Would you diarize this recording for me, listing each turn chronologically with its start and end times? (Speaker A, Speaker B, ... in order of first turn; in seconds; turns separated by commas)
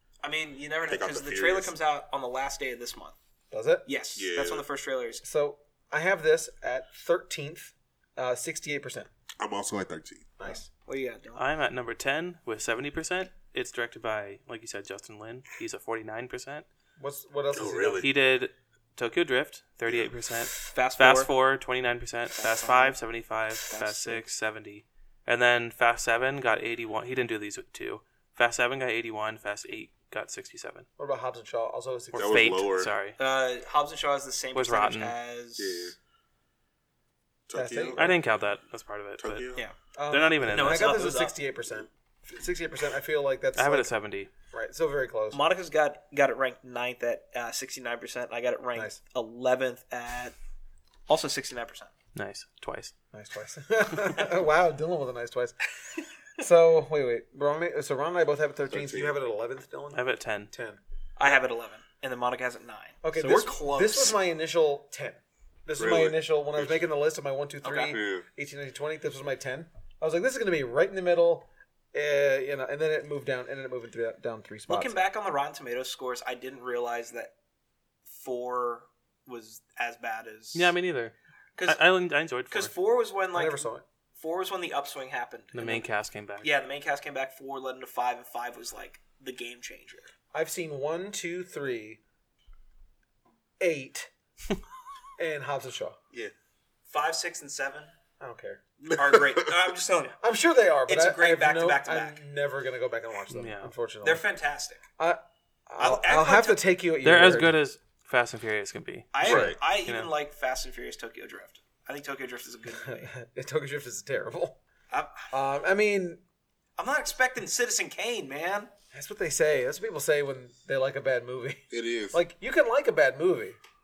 Speaker A: 0.2-3.2, Speaker B: 0.9-1.7, Speaker C: 3.5-3.9, Speaker A: 3.9-5.2, Speaker B: 4.2-4.7, Speaker C: 5.2-9.1, Speaker B: 9.4-10.3, Speaker C: 10.4-10.7, Speaker A: 10.4-11.4, Speaker D: 11.4-16.7, Speaker C: 17.0-18.1, Speaker B: 17.5-18.1, Speaker D: 18.0-30.9, Speaker B: 19.9-20.1, Speaker A: 20.6-21.3, Speaker A: 22.3-23.0, Speaker A: 23.6-24.2, Speaker C: 31.0-32.5, Speaker D: 32.1-33.2, Speaker B: 32.2-32.9, Speaker A: 33.2-35.9, Speaker D: 34.5-35.1, Speaker B: 35.6-36.0, Speaker B: 37.5-38.1, Speaker C: 37.5-38.2, Speaker D: 38.0-39.5, Speaker B: 39.2-39.6, Speaker C: 40.0-43.9, Speaker D: 40.1-41.1, Speaker A: 40.4-41.3, Speaker D: 43.5-44.3, Speaker C: 44.5-45.4, Speaker A: 45.3-50.3, Speaker A: 51.1-51.9, Speaker D: 52.1-52.9, Speaker C: 53.1-55.6, Speaker C: 56.4-61.4, Speaker B: 58.7-59.1, Speaker D: 59.9-60.5, Speaker A: 61.2-64.2, Speaker C: 63.0-75.0, Speaker B: 65.8-66.9, Speaker A: 67.6-68.0, Speaker B: 67.9-68.2, Speaker A: 74.7-77.3, Speaker A: 78.0-80.7, Speaker D: 80.5-81.1, Speaker A: 81.5-81.8, Speaker D: 81.7-82.7, Speaker A: 82.5-85.9, Speaker C: 83.3-83.8, Speaker D: 85.5-86.5, Speaker A: 86.4-90.1, Speaker C: 90.3-92.0, Speaker C: 93.6-94.1, Speaker C: 95.2-96.0, Speaker A: 96.9-97.9, Speaker C: 98.2-98.6, Speaker B: 98.8-99.6, Speaker A: 98.9-100.2, Speaker C: 100.2-104.2, Speaker A: 100.9-102.2, Speaker D: 103.3-103.7, Speaker A: 104.0-104.8, Speaker C: 105.0-107.6, Speaker A: 105.8-106.6, Speaker D: 107.0-110.1, Speaker A: 109.1-113.1, Speaker B: 109.2-109.6, Speaker C: 112.7-114.6, Speaker A: 114.9-115.3, Speaker C: 115.3-116.2, Speaker A: 116.8-118.7, Speaker C: 118.9-123.6, Speaker B: 121.7-122.2